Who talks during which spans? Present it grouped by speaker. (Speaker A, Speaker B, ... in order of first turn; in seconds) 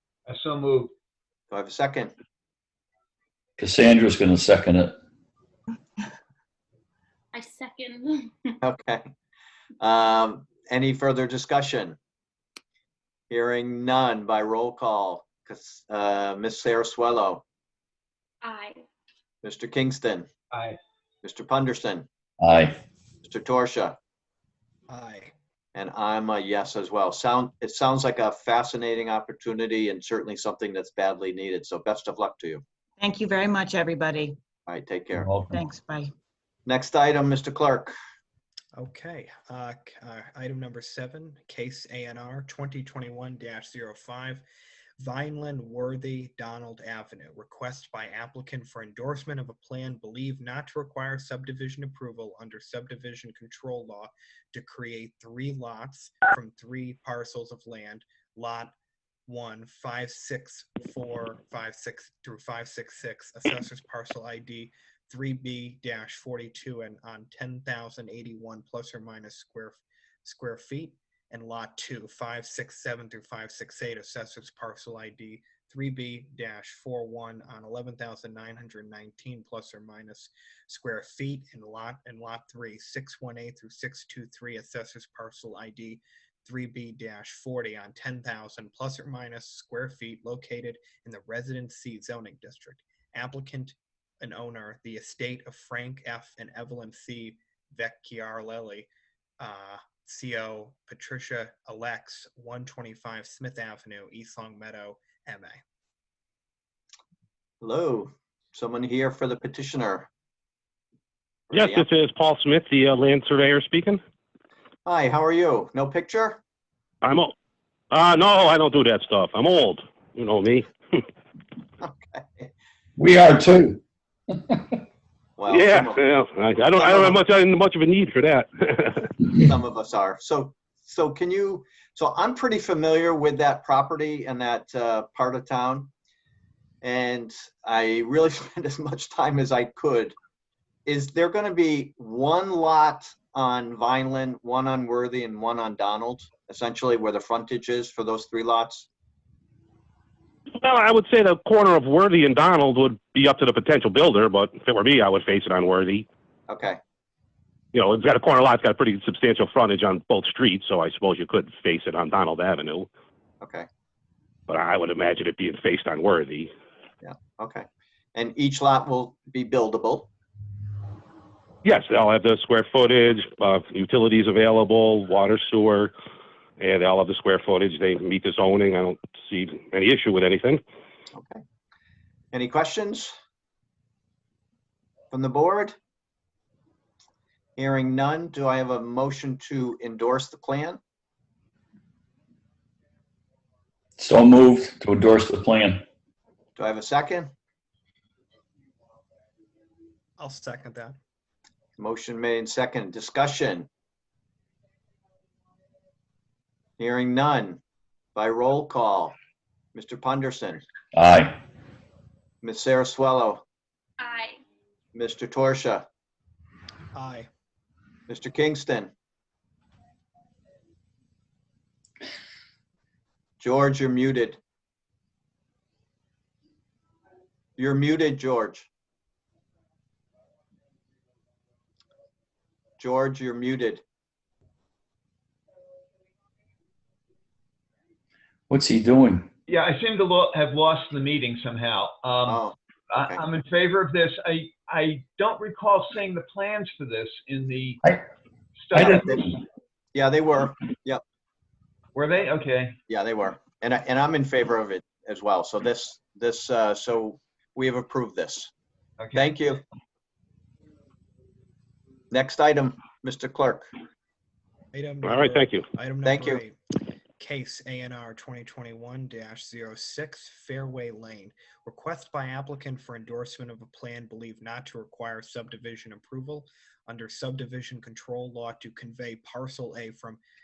Speaker A: 0.3-0.9, 20.5-20.8, 239.5-247.8, 248.6-249.2, 251.9-252.8, 259.0-259.3
Speaker B: 1.5-2.1, 8.6-9.0, 9.8-12.0, 13.3-17.4, 19.4-20.3, 21.2-22.1, 23.2-24.0, 25.7-32.6, 34.7-35.3, 36.6-37.9, 107.6-110.1, 111.5-111.8, 114.8-116.4, 121.8-122.5, 125.4-126.0, 126.7-127.2, 129.3-135.9, 136.8-140.1, 140.8-148.9, 156.5-156.8, 163.4-163.7, 167.0-170.1, 181.1-181.4, 182.3-183.1, 185.1-185.7, 187.6-190.8, 196.6-197.3, 201.8-203.7, 206.8-207.6, 208.1-209.2, 209.7-210.6, 212.4-213.4, 214.9-215.8, 218.1-218.9, 223.4-224.4, 227.6-228.7, 232.8-233.8, 242.3-243.2, 249.9-251.0, 252.9-258.5, 259.1-259.6, 262.1-263.7, 266.0-266.4
Speaker C: 3.6-5.0, 22.4-22.8, 35.1-35.6, 123.0-124.8, 194.0-195.8, 210.9-211.4, 238.5-239.3, 248.7-249.1
Speaker D: 7.3-8.5, 18.4-18.8, 214.0-214.4
Speaker E: 24.9-25.3, 38.7-44.4, 45.0-58.7, 59.3-98.9, 99.4-105.6, 200.2-200.9, 216.9-217.3, 264.7-266.6, 267.2-280.2
Speaker F: 33.0-34.4, 35.5-36.1
Speaker G: 111.5-114.0, 117.0-117.3, 117.9-121.0, 125.5-129.1, 150.6-156.1, 157.7-162.9, 164.5-166.5, 171.6-175.9, 176.6-180.6, 265.0-265.6